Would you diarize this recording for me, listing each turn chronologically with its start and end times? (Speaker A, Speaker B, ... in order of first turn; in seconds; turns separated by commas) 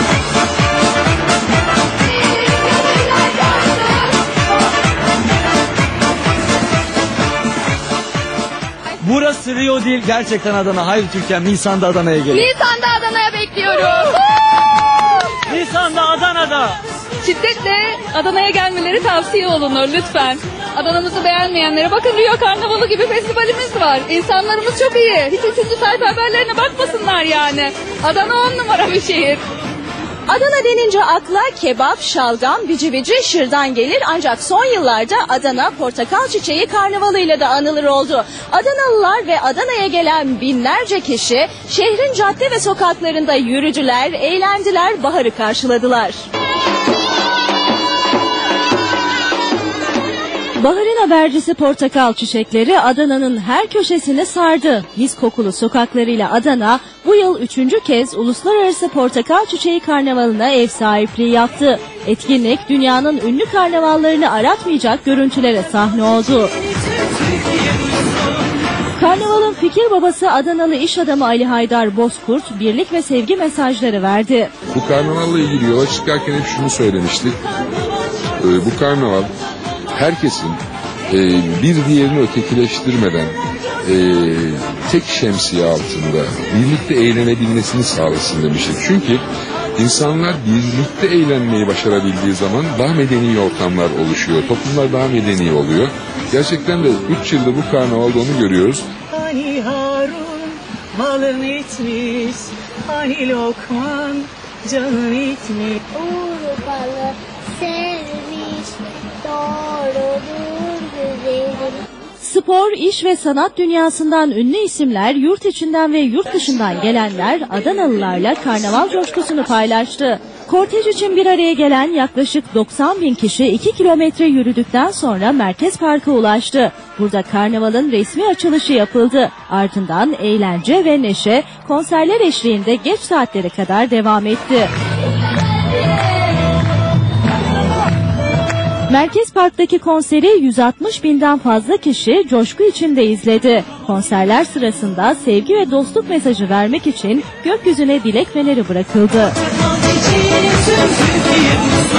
Speaker A: 9.0-12.4, Speaker B: 12.3-14.2, Speaker A: 15.5-16.8, Speaker B: 17.2-29.4, Speaker C: 30.3-46.2, Speaker C: 50.6-66.5, Speaker C: 69.0-74.5, Speaker D: 74.7-77.4, Speaker D: 78.4-79.3, Speaker D: 79.9-89.2, Speaker D: 89.8-98.8, Speaker E: 99.2-105.7, Speaker F: 105.9-111.8, Speaker C: 112.2-134.7, Speaker C: 138.9-149.3